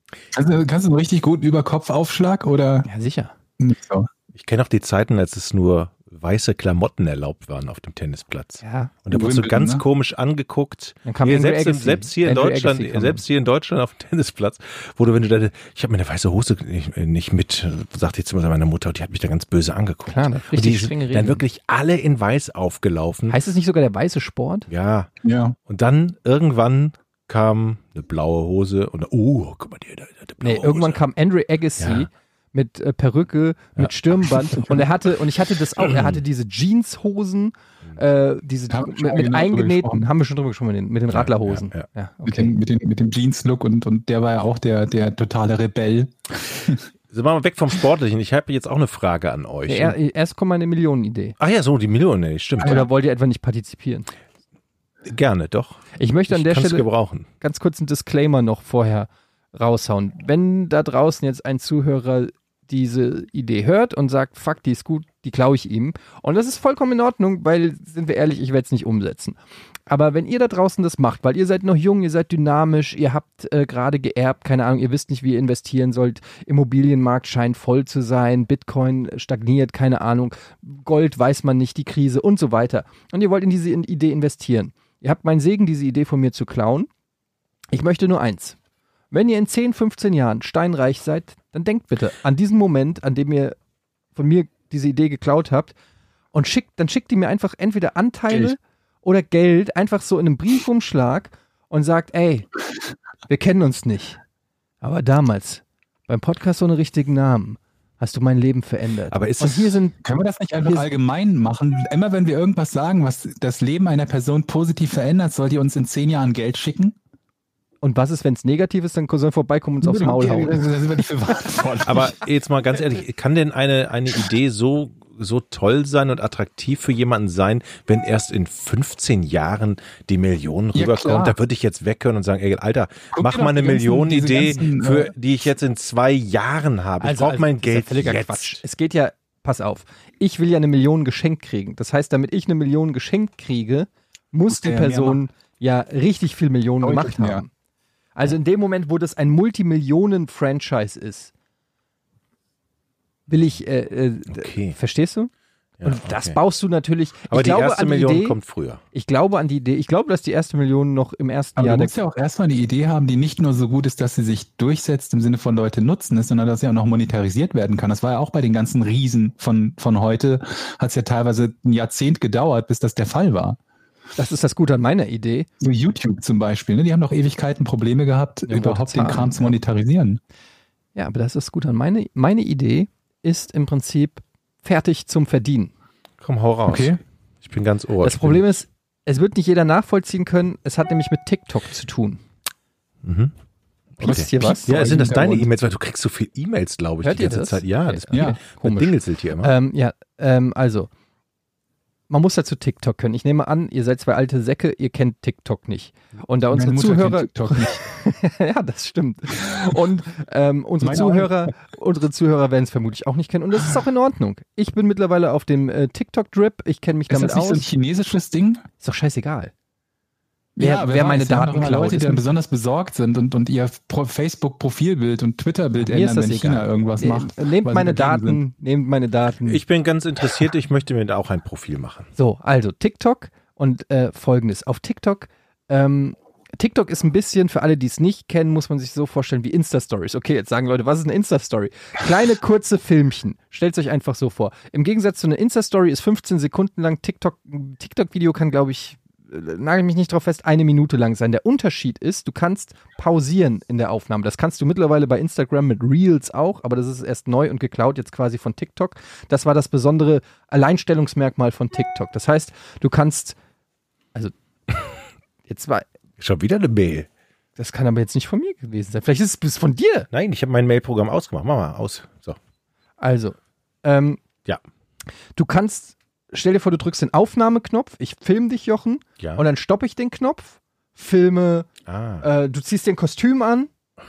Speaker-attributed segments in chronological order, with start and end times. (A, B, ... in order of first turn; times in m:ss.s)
0:00.3-0:02.9 A
0:02.8-0:03.3 B
0:03.6-0:04.1 A
0:04.4-0:23.4 C
0:08.6-0:08.9 B
0:09.1-0:09.8 A
0:11.0-0:13.2 B
0:20.1-0:21.4 B
0:23.3-0:24.7 B
0:24.7-0:25.1 C
0:25.2-0:25.6 A
0:25.7-0:31.0 C
0:30.4-0:42.5 B
0:31.8-0:32.1 C
0:35.8-0:36.2 C
0:38.7-0:40.1 A
0:41.1-0:41.8 C
0:42.2-0:46.8 A
0:47.1-0:50.0 C
0:49.7-0:51.4 B
0:51.4-0:52.9 C
0:52.6-0:54.1 B
0:55.0-0:57.3 C
0:56.0-0:56.9 B
0:57.4-1:26.9 B
1:27.7-1:28.6 B
1:29.1-1:33.5 B
1:34.1-1:35.7 B
1:36.3-1:42.5 B
1:43.3-1:44.2 B
1:44.8-1:50.0 B
1:49.1-1:49.8 C
1:50.0-1:57.0 A
1:57.8-2:00.6 B
1:59.8-2:02.2 A
2:01.8-2:18.6 C
2:10.7-2:11.4 A
2:13.1-2:15.1 A
2:17.0-2:27.5 B
2:24.5-2:25.2 A
2:26.8-2:27.4 A
2:28.2-2:31.3 B
2:33.3-2:35.3 B
2:34.3-2:34.8 C
2:35.8-2:36.4 C
2:35.8-2:38.4 B
2:37.3-2:38.8 C
2:38.9-2:41.9 B
2:41.6-2:53.6 A
2:54.2-2:55.5 B
2:55.6-3:00.2 A
2:58.5-2:59.5 B
3:00.9-3:05.7 B
3:06.2-3:08.5 C
3:06.7-3:07.0 A
3:08.0-3:12.2 B
3:13.0-3:13.3 C
3:14.0-3:19.5 C
3:14.0-3:14.8 B
3:14.0-3:15.5 A
3:17.0-3:20.9 B
3:18.1-3:18.4 A
3:22.1-3:37.7 B
3:26.5-3:27.8 A
3:30.8-3:31.5 A
3:37.1-3:38.6 A
3:38.8-3:39.5 B
3:40.6-3:48.4 A
3:40.6-3:42.2 B
3:45.8-3:49.6 B
3:49.4-3:52.1 C
3:52.2-4:23.4 B
4:25.5-4:25.8 B
4:26.2-4:27.1 C
4:27.6-4:30.1 B
4:30.1-4:32.4 C
4:33.0-4:34.2 B
4:35.4-4:41.7 B
4:41.8-4:42.2 C
4:42.2-4:43.7 B